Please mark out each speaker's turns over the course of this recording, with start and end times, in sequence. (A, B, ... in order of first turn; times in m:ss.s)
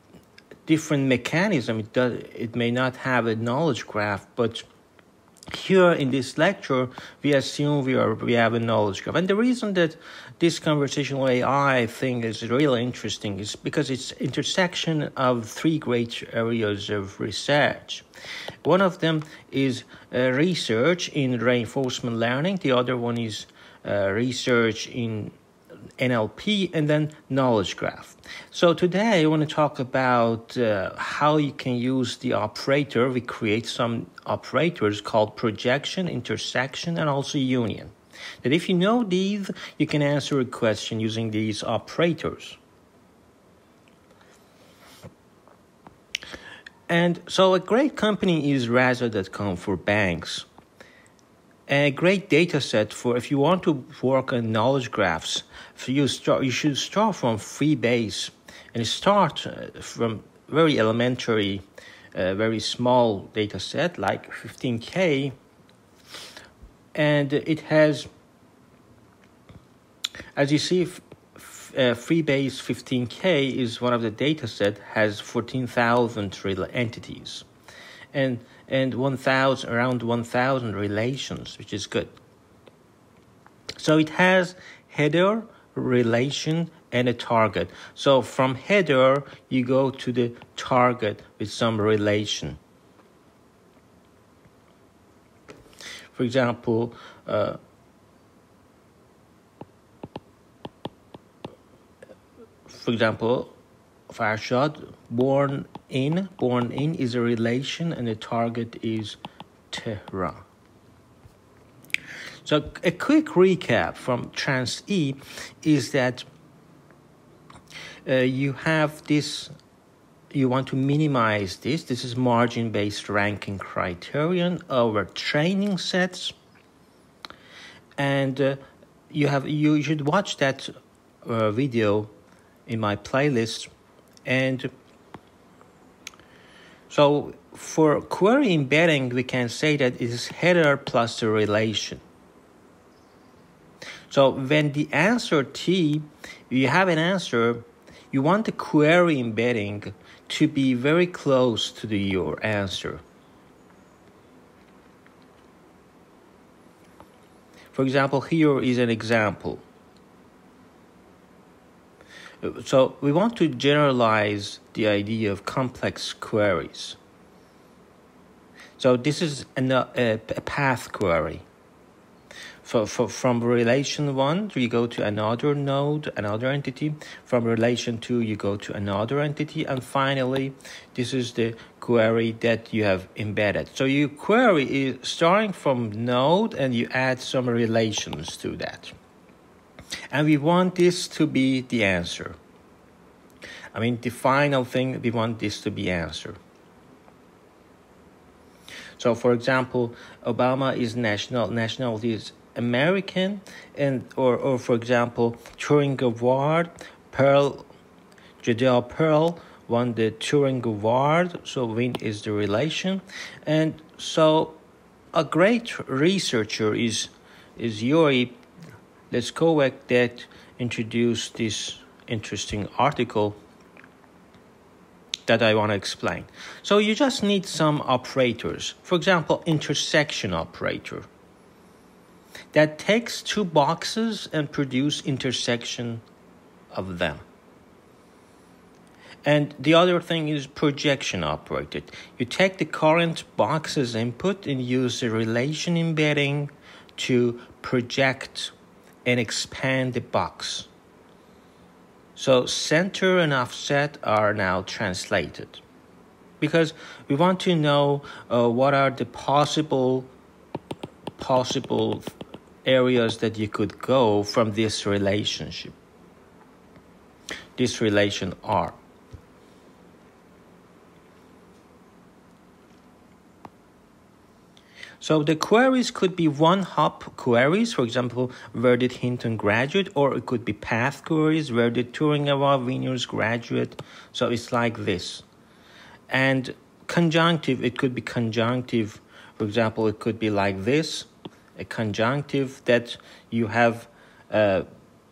0:00.6-0:04.6 A
0:05.5-0:18.0 A
0:18.6-0:25.3 A
0:26.0-0:42.6 A
0:46.9-0:50.5 A
0:51.7-1:01.6 A
1:02.1-1:05.3 A
1:06.9-1:08.1 A
1:10.4-1:17.4 A
1:18.1-1:22.1 A
1:23.8-1:32.6 A
1:36.1-1:37.6 A
1:42.7-1:43.5 A
1:44.1-1:49.2 A
1:49.7-1:50.4 A
1:52.4-1:56.3 A
1:58.0-1:59.5 A
2:00.3-2:06.3 A
2:08.0-2:10.7 A
2:11.2-2:12.1 A
2:12.7-2:13.7 A
2:14.2-2:14.7 A
2:16.9-2:22.0 A
2:24.1-2:33.0 A
2:37.7-2:39.6 A
2:42.4-2:47.0 A
2:48.8-2:51.4 A
2:52.6-3:08.9 A
3:10.1-3:12.4 A
3:13.7-3:16.4 A
3:19.0-3:27.7 A
3:28.4-3:34.6 A
3:35.1-3:38.4 A
3:39.1-3:43.4 A
3:45.3-3:51.1 A
3:52.5-3:56.0 A
3:56.7-3:57.2 A
3:59.2-4:08.5 A
4:09.0-4:10.7 A
4:12.2-4:15.6 A
4:16.4-4:20.1 A
4:21.2-4:22.1 A
4:22.6-4:25.8 A
4:27.6-4:28.8 A
4:35.0-4:45.2 A
4:46.1-4:54.6 A